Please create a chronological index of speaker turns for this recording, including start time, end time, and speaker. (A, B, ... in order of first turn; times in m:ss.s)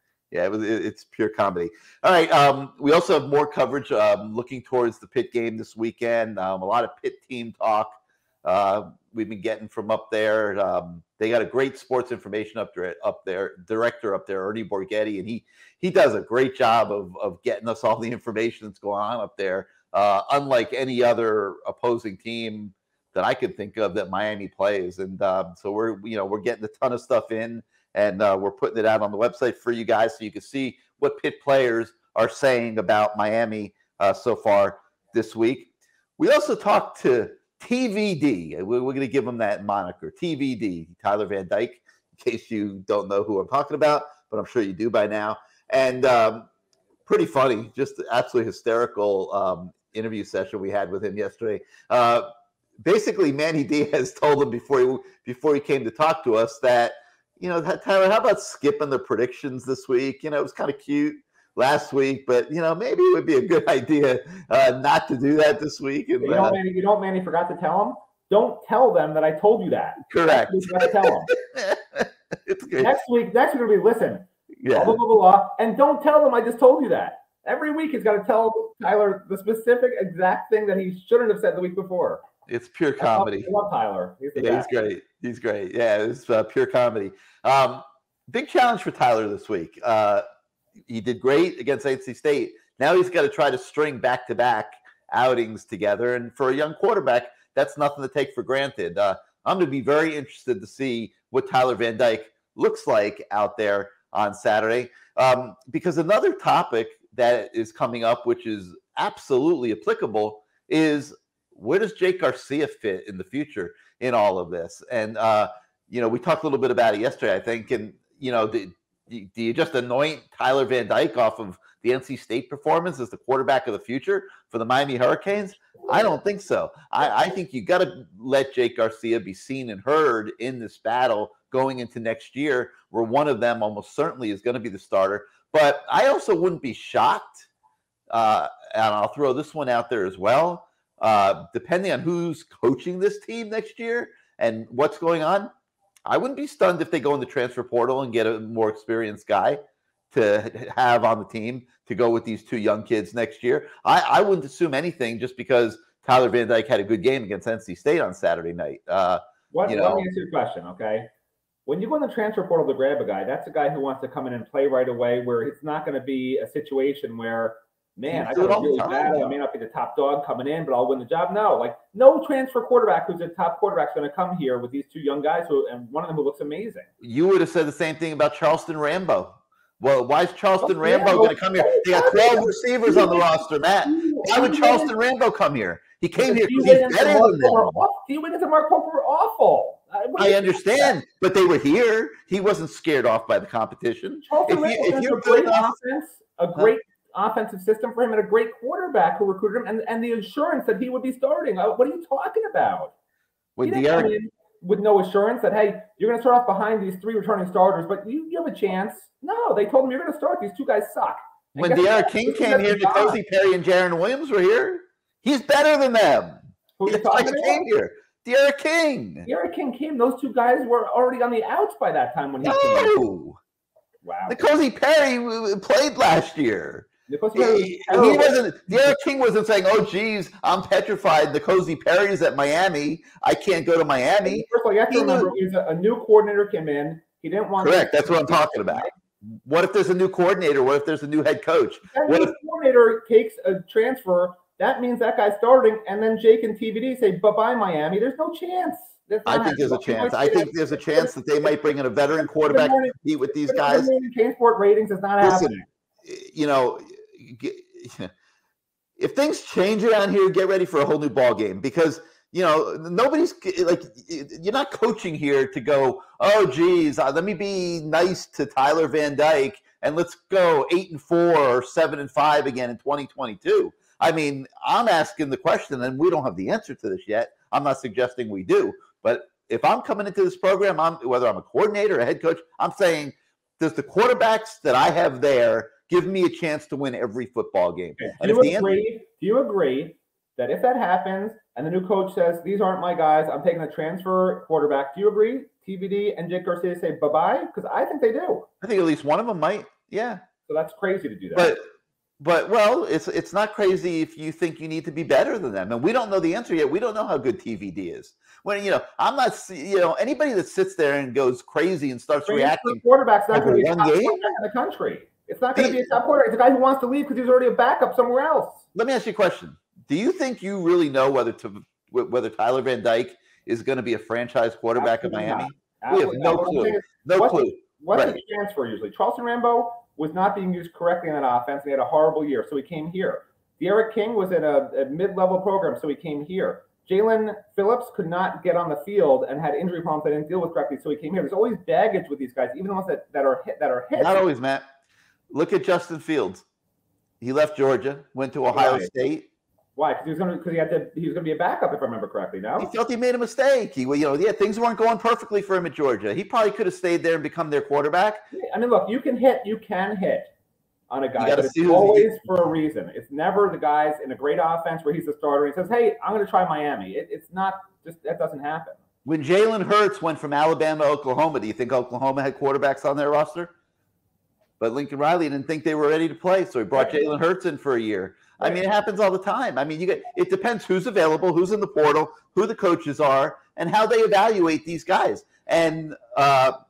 0:00.3-0:46.5 A
0:47.1-0:52.3 A
0:52.8-1:06.6 A
1:06.2-1:11.3 B
1:10.1-1:12.9 A
1:12.8-1:22.2 B
1:14.6-1:15.0 A
1:22.5-1:23.5 A
1:23.0-1:24.7 B
1:24.4-1:30.2 A
1:30.9-2:17.5 A
2:18.1-2:25.5 A
2:26.1-2:29.6 A
2:30.1-2:40.1 A
2:39.5-2:41.1 B
2:41.7-2:56.9 B
2:48.1-2:49.4 A
2:57.0-3:07.8 A
3:00.6-3:04.9 B
3:06.2-3:11.0 B
3:10.2-3:15.7 A
3:14.2-3:22.9 B
3:23.6-3:24.1 A
3:23.6-3:33.2 B
3:31.6-3:39.3 A
3:36.8-3:37.6 B
3:39.3-3:43.0 B
3:42.4-3:43.4 A
3:44.0-3:44.4 B
3:44.3-3:55.3 A
3:47.1-3:48.4 B
3:54.2-3:58.9 B
3:57.6-4:02.3 A
4:01.9-4:11.5 B
4:09.2-4:13.9 A
4:12.4-4:15.7 B
4:15.2-4:15.5 A
4:16.0-4:18.1 A
4:19.0-4:48.8 A
4:48.0-4:58.5 B
4:58.6-5:00.2 A
5:00.5-5:01.5 B
5:01.4-5:01.6 A
5:02.2-5:14.2 A
5:12.3-5:18.6 B
5:15.6-5:15.8 A
5:18.7-5:28.2 A
5:24.8-5:44.3 B
5:44.0-5:44.6 A
5:45.3-5:46.5 A
5:47.2-5:49.3 A
5:48.5-5:48.9 B
5:49.8-5:52.7 B
5:52.6-5:58.2 A
5:58.3-6:00.3 B
6:00.9-6:08.8 B
6:01.2-6:02.1 A
6:09.0-6:13.5 A
6:14.6-6:26.6 A
6:16.7-6:17.0 B